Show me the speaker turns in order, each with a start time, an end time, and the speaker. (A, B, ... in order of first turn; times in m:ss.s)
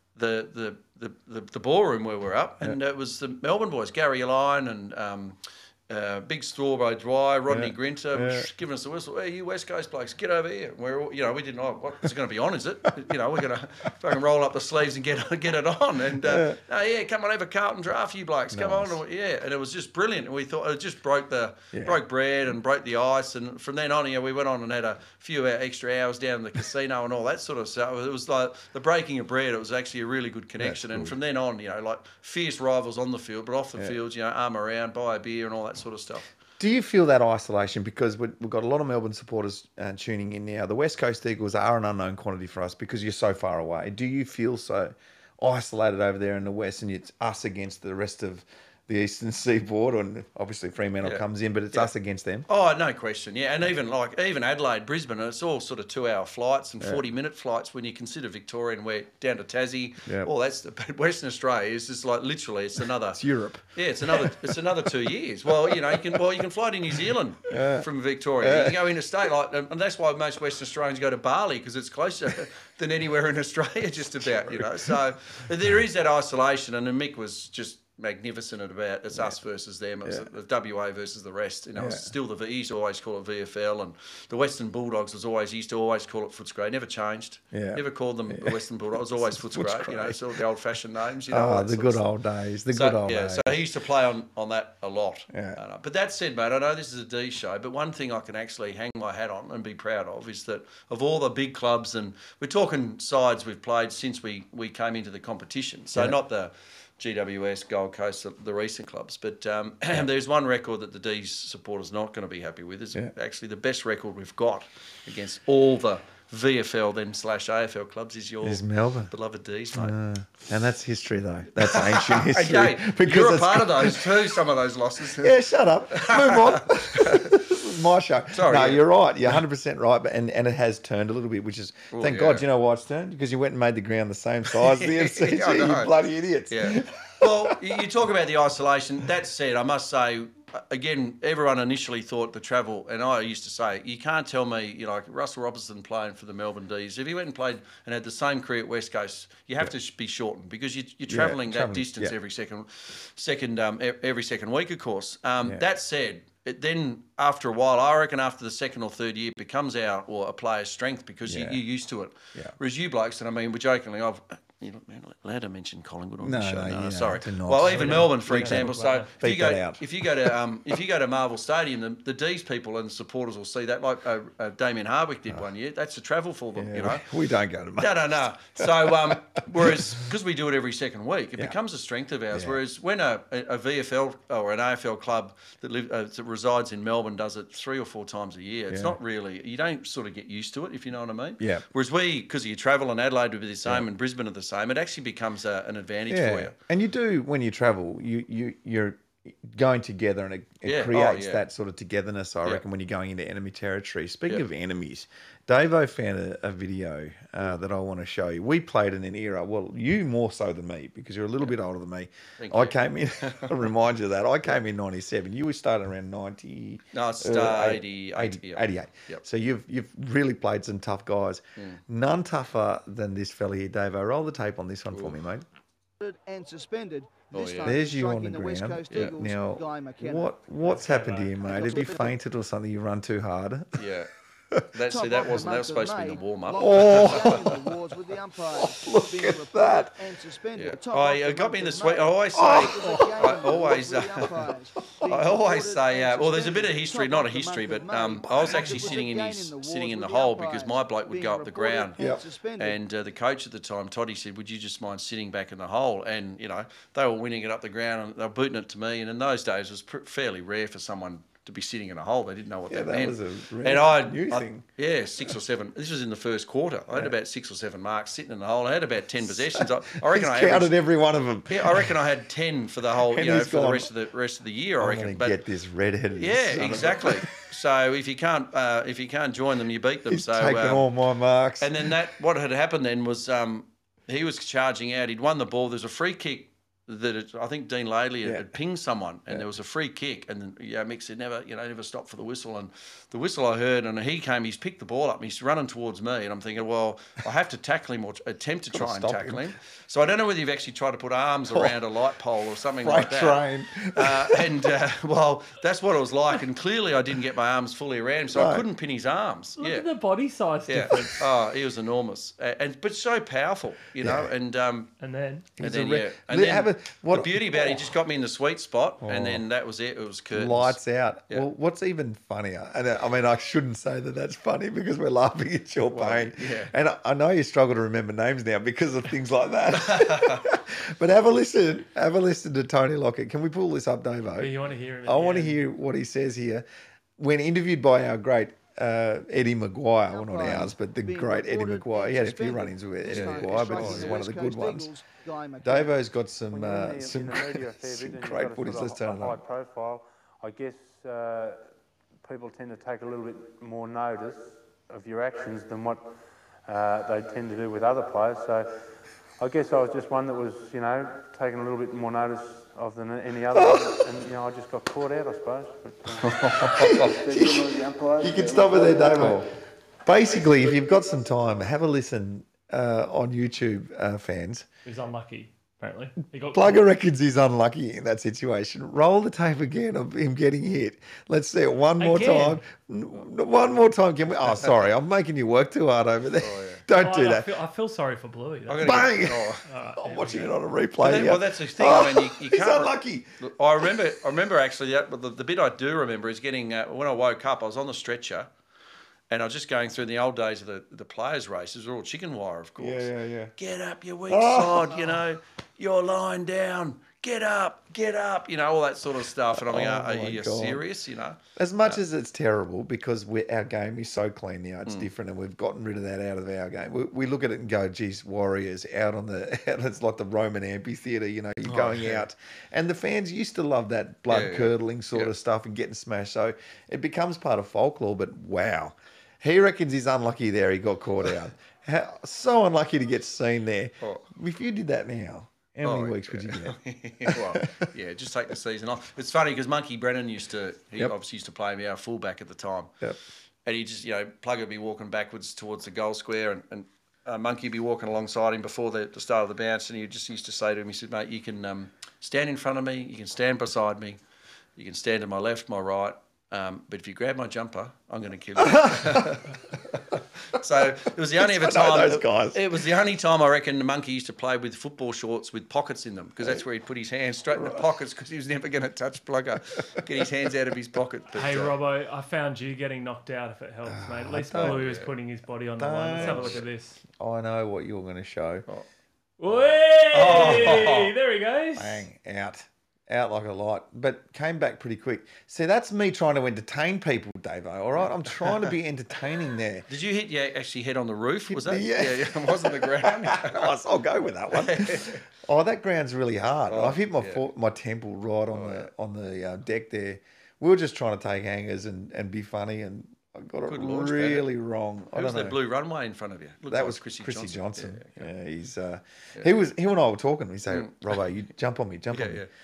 0:00.2-0:36.3 A
0:07.5-0:08.5 B
0:16.2-0:16.6 B
0:18.5-0:19.0 B
0:21.7-0:22.0 B
0:30.6-0:31.1 B
0:36.6-0:52.5 B
0:51.0-0:51.9 A
0:52.5-1:03.2 A
0:56.8-0:57.1 B
1:00.0-1:00.3 B
1:03.1-1:06.2 B
1:03.7-1:32.0 A
1:07.5-1:07.9 B
1:08.4-1:08.8 B
1:14.2-1:15.0 B
1:21.8-1:22.1 B
1:27.5-1:30.4 B
1:31.3-1:33.7 B
1:32.7-2:00.0 A
1:35.3-1:35.6 B
1:58.4-1:59.1 B
1:59.7-2:04.4 B
2:01.6-2:05.4 A
2:05.0-2:17.8 B
2:05.9-2:07.4 A
2:08.3-2:09.4 A
2:11.9-2:12.5 A
2:14.5-2:15.9 A
2:16.5-2:57.1 A
2:31.1-2:32.2 B
2:41.3-2:41.6 B
2:46.2-2:50.4 B
2:47.7-2:49.1 C
2:56.6-3:00.0 B
2:57.8-3:16.5 A
3:02.3-3:02.6 B
3:08.7-3:09.0 B
3:11.4-3:11.6 B
3:16.1-3:45.5 B
3:20.6-3:21.4 A
3:32.4-3:33.6 A
3:36.9-3:39.2 A
3:46.0-3:50.3 D
3:47.3-3:47.8 A
3:47.6-3:53.8 B
3:50.6-3:51.5 C
3:51.4-3:52.2 D
3:53.8-3:54.1 A
3:54.7-3:57.4 A
3:54.9-4:12.8 D
3:56.6-3:57.6 B
3:58.6-4:00.1 B
4:00.6-4:04.4 A
4:02.3-4:03.7 B
4:05.1-4:12.0 A
4:08.2-4:09.0 B
4:12.0-4:12.2 B
4:12.6-4:30.8 A
4:22.7-4:24.6 B
4:29.2-4:32.0 B
4:31.5-4:35.4 A
4:33.0-4:33.9 B
4:34.8-4:37.3 B
4:36.2-4:40.9 A
4:40.1-4:42.0 B
4:41.6-5:03.4 A
4:48.2-4:48.5 B
4:58.7-4:59.5 B
5:01.5-5:01.8 B
5:02.8-5:04.7 B
5:03.9-5:09.9 A
5:08.3-5:08.7 B
5:09.6-5:11.2 C
5:10.7-5:14.9 A
5:14.0-5:14.3 B
5:15.0-5:15.5 C
5:15.6-5:18.0 B
5:15.6-5:21.5 A
5:19.0-5:19.4 B
5:20.3-5:36.7 B
5:25.9-5:26.7 A
5:29.7-5:30.4 A
5:34.4-5:35.6 C
5:37.2-5:44.9 B
5:40.1-5:46.0 D
5:43.1-5:44.2 A
5:45.6-5:49.4 B
5:46.5-5:56.1 E
5:56.6-5:58.7 E
5:59.4-6:09.4 E
6:03.5-6:04.0 B
6:06.2-6:07.1 A
6:06.6-6:09.5 B
6:10.0-6:14.7 B
6:14.9-6:16.8 C
6:16.5-6:27.5 B
6:22.0-6:22.6 C
6:26.4-6:26.8 A
6:26.9-6:30.5 C
6:28.7-6:29.6 A
6:28.8-6:33.3 B
6:31.0-6:38.5 A
6:39.3-6:52.0 A
6:42.8-6:43.5 B
6:44.3-6:45.2 B
6:49.5-6:50.8 B
6:51.6-7:17.9 B
7:01.6-7:02.2 A
7:04.3-7:05.3 A
7:15.8-7:22.9 A
7:23.6-7:34.2 A
7:34.8-7:39.5 A
7:38.6-7:39.5 B
7:40.5-7:51.7 A
7:41.4-7:42.8 B
7:47.5-7:47.8 B
7:51.3-7:57.0 C
7:53.9-7:54.8 B
7:54.6-7:55.1 A
7:55.8-7:58.7 B
7:56.2-7:56.6 A
7:59.4-8:02.0 C
7:59.5-8:01.1 A
8:00.2-8:00.9 B
8:01.8-8:09.9 B
8:08.0-8:08.7 A
8:09.9-8:13.7 A
8:11.5-8:25.6 B
8:14.5-8:15.2 A
8:16.7-8:17.4 A
8:18.5-8:18.9 A
8:23.6-8:24.5 A
8:25.1-8:28.3 A
8:26.7-8:32.5 B
8:30.7-8:31.2 A
8:32.1-8:32.5 A